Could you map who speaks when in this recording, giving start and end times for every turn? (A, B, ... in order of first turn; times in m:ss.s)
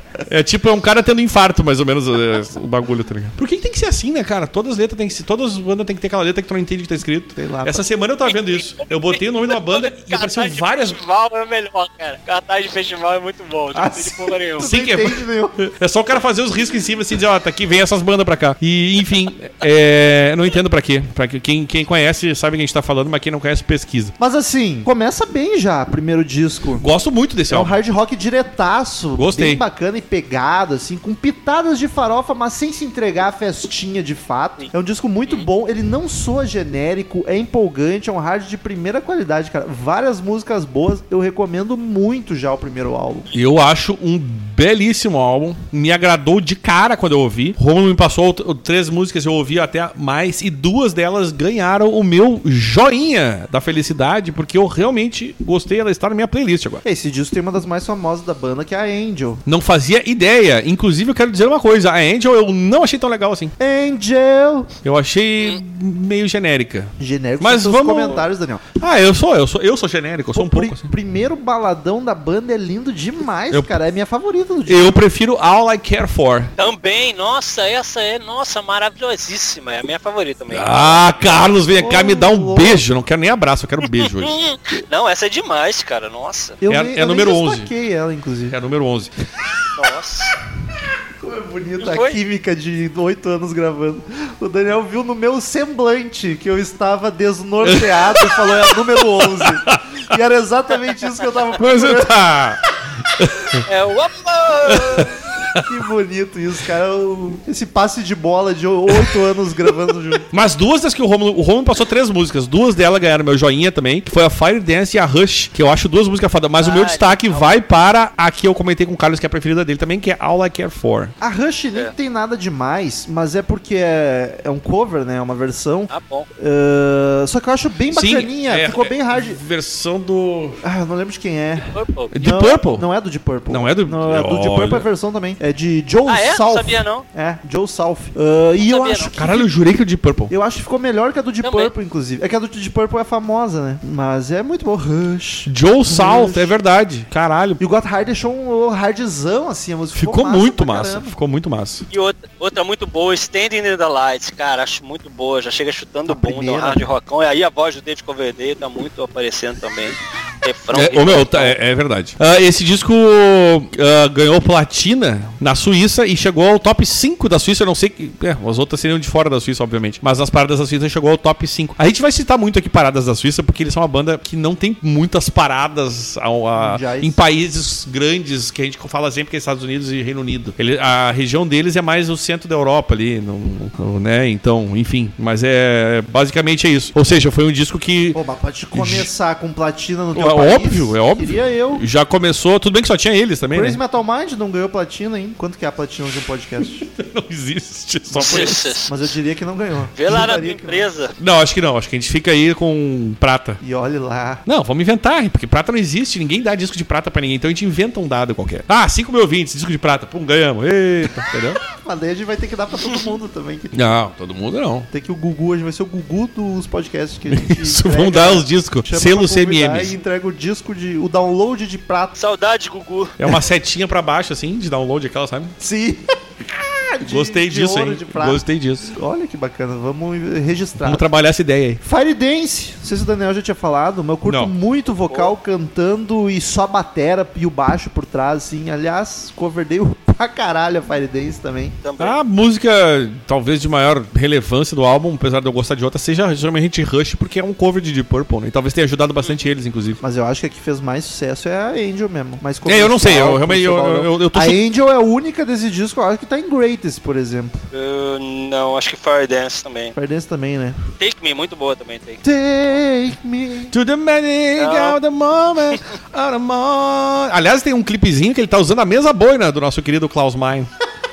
0:00.3-0:11.0 A
0:07.4-0:07.8 B
0:08.3-0:14.6 C
0:13.7-0:15.6 B
0:14.6-0:24.1 A
0:24.2-0:26.9 B
0:26.8-0:27.7 A
0:27.5-0:43.3 B
0:29.2-0:29.6 A
0:43.3-0:56.8 A
0:56.8-0:59.4 B
0:59.4-1:03.5 A
1:03.6-1:04.7 B
1:04.8-1:08.2 A
1:07.0-1:08.6 B
1:08.8-1:10.9 A
1:10.3-1:15.0 B
1:14.7-1:16.5 A
1:16.6-1:21.1 C
1:20.5-1:24.4 A
1:21.4-1:22.8 B
1:23.8-1:26.6 C
1:26.6-1:28.6 B
1:26.7-1:27.7 A
1:28.5-1:29.1 A
1:29.7-1:30.3 C
1:31.2-1:42.1 B
1:31.8-1:32.2 C
1:37.6-1:39.8 A
1:41.6-1:42.6 A
1:43.1-1:43.6 A
1:43.7-1:45.1 C
1:44.7-1:45.6 A
1:45.6-1:50.2 B
1:50.3-2:01.1 A
1:56.6-1:57.6 C
2:01.2-2:09.4 B
2:05.9-2:06.3 C
2:07.9-2:10.6 A
2:10.6-2:19.5 B
2:11.7-2:12.2 C
2:12.1-2:12.8 A
2:13.5-2:14.8 A
2:16.1-2:17.0 C
2:18.6-2:19.1 C
2:19.2-2:20.3 A
2:20.3-2:26.6 B
2:21.4-2:21.7 C
2:25.4-2:27.6 A
2:27.6-2:31.2 B
2:29.9-2:31.8 A
2:31.9-2:41.6 C
2:36.1-2:36.8 B
2:40.7-3:08.2 A
2:56.5-2:57.2 B
3:08.1-3:11.8 B
3:08.7-3:09.1 A
3:10.1-3:13.8 A
3:13.5-3:16.8 B
3:16.6-3:18.7 A
3:18.1-3:19.0 C
3:18.1-3:20.9 B
3:20.0-3:21.1 C
3:21.2-3:23.6 A
3:23.6-3:24.4 B
3:24.4-3:31.6 A
3:31.7-3:33.9 B
3:33.7-3:34.9 A
3:34.9-3:42.2 B
3:37.3-3:39.9 A
3:42.2-3:43.1 C
3:43.2-3:45.5 A
3:45.6-3:51.0 B
3:47.0-3:48.9 A
3:50.8-3:51.8 A
3:51.8-4:01.8 B
3:54.3-3:54.5 A
4:01.8-4:02.2 C
4:02.0-4:10.0 A
4:10.0-4:17.6 B
4:12.6-4:14.6 A
4:17.7-4:19.9 C
4:20.0-4:20.8 B
4:21.0-4:22.2 C
4:22.2-4:23.7 B
4:23.7-4:30.7 A
4:24.6-4:25.0 C